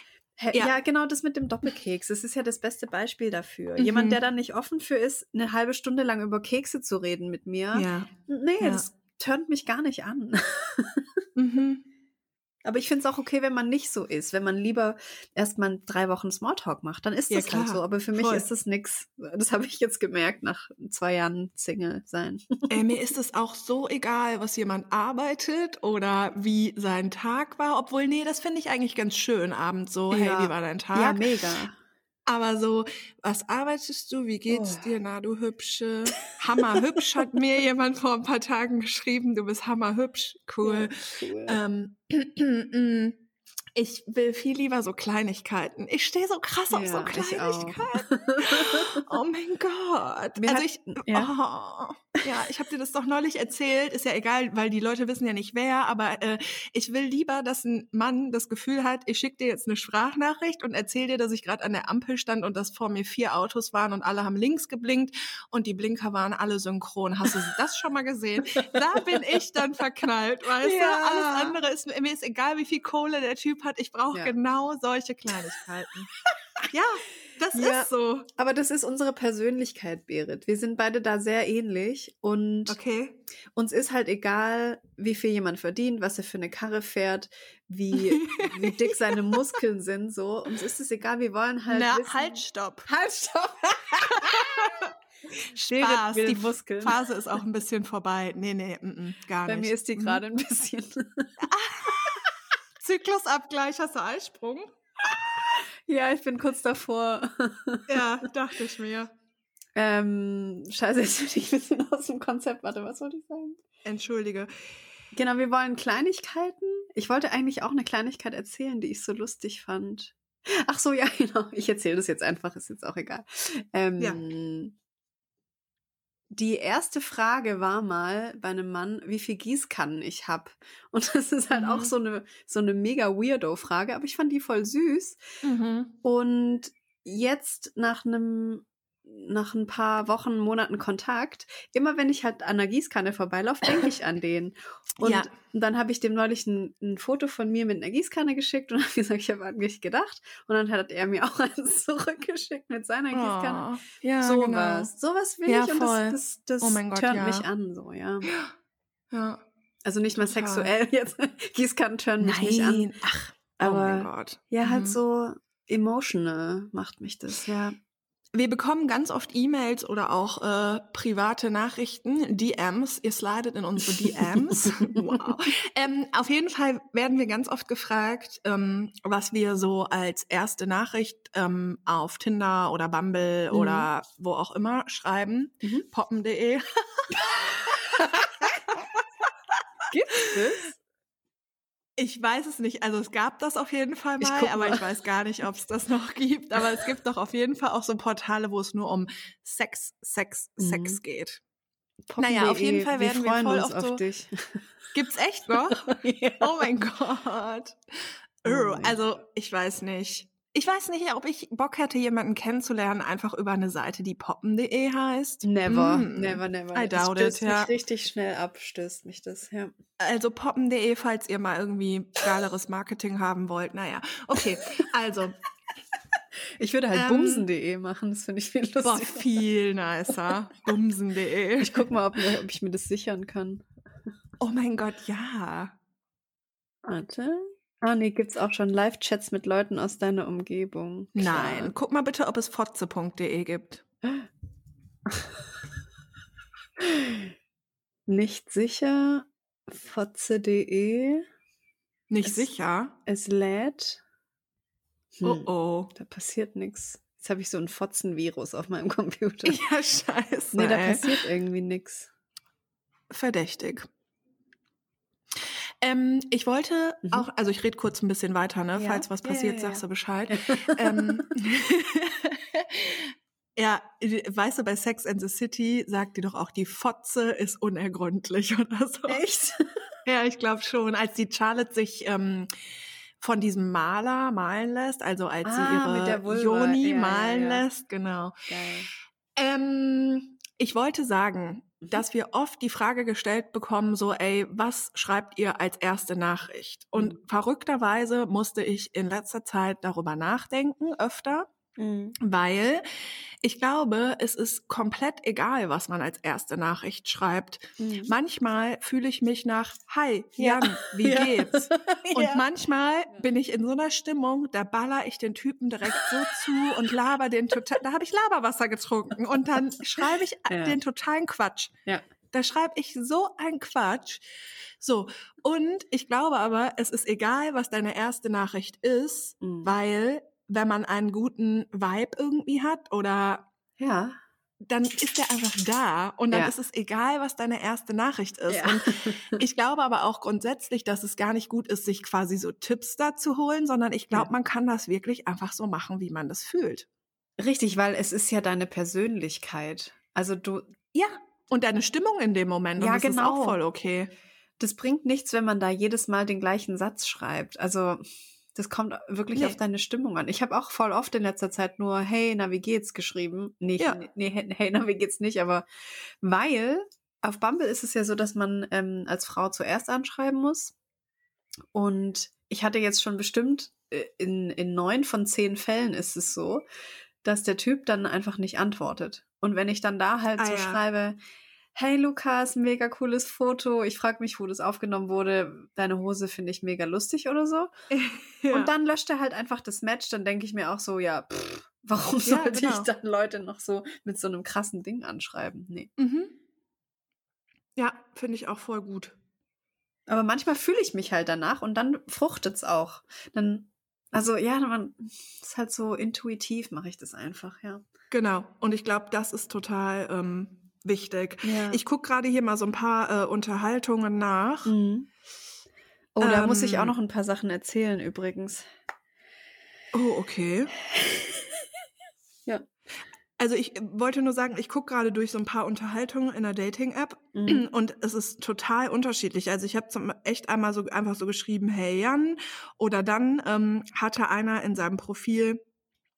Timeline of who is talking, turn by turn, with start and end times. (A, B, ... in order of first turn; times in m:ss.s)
0:00.4-0:11.2 A
0:03.8-0:04.2 B
0:07.7-0:08.1 B
0:08.6-0:08.8 B
0:11.4-0:11.8 B
0:12.6-0:22.8 A
0:17.3-0:18.4 B
0:22.7-0:31.2 B
0:30.1-0:31.8 A
0:32.2-0:43.2 B
0:34.5-0:34.9 A
0:40.6-0:41.6 A
0:43.7-1:16.1 B
0:46.7-0:49.0 A
0:50.4-0:51.3 A
1:10.6-1:11.6 A
1:16.7-1:18.3 B
1:17.5-1:22.8 A
1:22.7-1:23.2 B
1:23.5-1:34.9 A
1:28.0-1:29.3 B
1:31.7-1:32.9 B
1:34.1-1:34.9 B
1:35.6-1:37.0 A
1:35.6-1:40.2 B
1:39.4-1:41.4 A
1:41.5-1:45.5 B
1:45.9-1:48.2 A
1:47.9-1:49.1 B
1:49.8-1:53.6 A
1:53.8-1:54.5 B
1:55.1-2:04.8 A
2:06.3-2:15.2 A
2:11.5-2:11.9 B
2:15.4-2:15.9 B
2:16.0-2:33.6 A
2:25.0-2:25.3 B
2:33.1-2:34.9 B
2:34.2-2:38.3 A
2:35.4-2:37.5 B
2:38.2-2:38.5 B
2:39.1-2:39.4 B
2:39.8-2:42.9 A
2:40.2-2:40.7 B
2:42.2-2:45.0 B
2:43.6-2:47.8 A
2:48.3-3:08.8 B
2:54.8-2:55.1 A
3:03.5-3:03.9 A
3:07.9-3:08.4 A
3:09.9-3:10.7 A
3:12.0-3:21.4 B
3:14.2-3:14.8 A
3:20.6-3:21.0 A
3:22.1-3:24.7 A
3:22.2-3:24.0 B
3:24.9-3:37.7 B
3:25.7-3:26.6 A
3:28.5-3:29.0 A
3:35.4-3:39.7 A
3:40.0-3:45.4 B
3:46.6-3:49.2 A
3:46.9-3:47.4 B
3:48.8-3:51.9 B
3:51.6-3:53.6 A
3:54.4-3:55.7 B
3:56.8-4:01.7 A
4:01.1-4:03.8 B
4:05.1-4:05.4 A
4:06.8-4:07.3 A
4:08.1-4:11.2 A
4:12.1-4:13.0 B
4:12.2-4:12.5 A
4:13.0-4:14.0 A
4:15.2-4:19.6 A
4:15.2-4:15.9 B
4:19.4-4:21.1 B
4:20.5-4:22.1 A
4:23.1-4:23.9 B
4:25.8-4:39.2 B
4:28.8-4:31.4 A
4:39.1-4:39.8 A
4:40.0-4:42.5 B
4:43.2-4:48.3 B
4:45.4-4:47.6 A
4:48.5-4:48.9 A
4:49.3-5:01.5 B
5:01.8-5:02.2 A
5:02.2-5:02.8 B
5:03.4-5:21.7 B
5:07.8-5:08.1 A
5:10.4-5:12.4 A
5:20.5-5:20.8 A
5:22.3-5:24.2 B
5:24.8-5:33.5 B
5:29.4-5:29.7 A
5:33.8-5:34.2 A
5:34.6-5:46.8 B
5:38.5-5:39.4 A
5:47.4-5:50.7 A
5:50.9-5:54.1 B
5:52.8-5:53.6 A
5:54.6-5:58.0 A
5:58.5-6:05.6 A
6:06.2-6:10.7 A
6:11.7-6:16.6 A
6:17.2-6:21.2 A
6:20.4-6:20.8 B
6:21.7-6:27.7 A
6:27.9-6:28.7 B
6:28.5-6:35.9 A
6:32.2-6:32.9 B
6:36.0-6:36.3 B
6:37.8-6:39.2 B
6:40.1-6:47.8 A
6:48.1-6:54.7 B
6:51.4-6:51.8 A
6:54.6-6:55.1 A
6:56.1-6:58.6 A
6:56.2-6:56.9 B
6:59.9-7:00.7 B
7:03.4-7:15.6 B
7:07.3-7:07.6 A